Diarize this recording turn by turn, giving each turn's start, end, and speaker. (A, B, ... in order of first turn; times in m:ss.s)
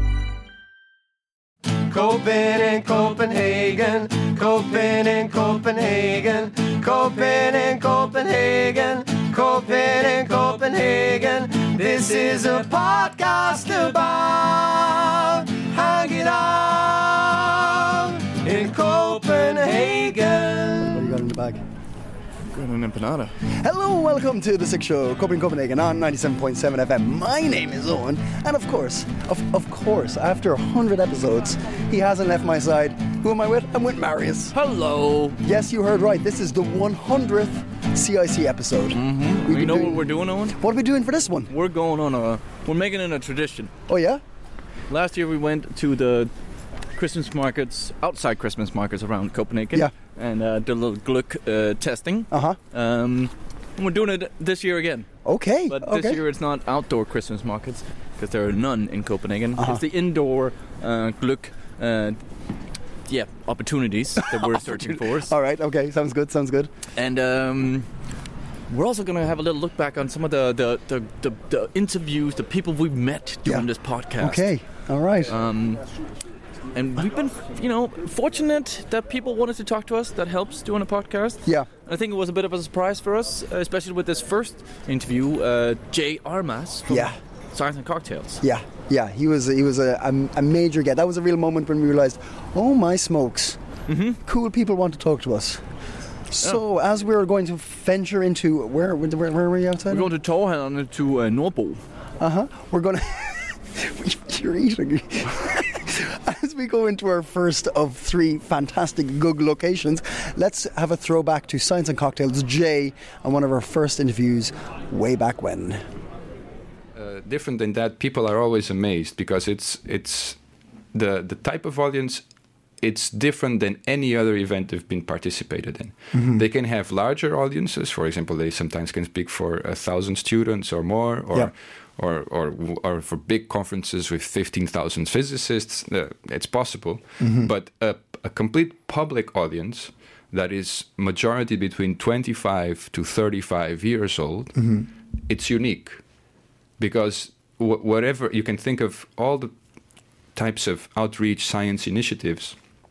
0:01.9-0:21.0 A
0:20.8-0:21.6 B
0:22.5-0:23.4 C
0:23.6-0:34.6 B
0:34.5-0:35.4 C
0:35.4-0:41.5 B
0:38.9-0:40.6 C
0:41.5-0:43.7 C
0:43.9-0:44.2 B
0:44.9-0:46.3 C
0:47.0-0:55.1 C
0:52.3-0:52.6 B
0:55.2-0:56.2 B
0:55.7-1:02.2 C
0:59.6-0:59.8 B
1:03.1-1:05.3 C
1:05.2-1:06.7 B
1:07.0-1:07.9 C
1:08.7-1:14.5 C
1:13.4-1:15.3 B
1:15.3-1:15.8 C
1:16.7-1:28.4 C
1:26.9-1:27.2 B
1:28.4-1:33.6 B
1:33.9-1:34.2 C
1:34.2-1:35.6 B
1:36.3-1:40.1 B
1:39.9-1:41.8 C
1:42.2-1:55.8 B
1:57.0-2:00.4 D
2:00.9-2:02.2 D
2:02.8-2:26.0 D
2:06.1-2:06.4 B
2:17.2-2:17.5 B
2:24.6-2:24.8 B
2:26.8-2:29.5 D
2:30.3-2:32.6 D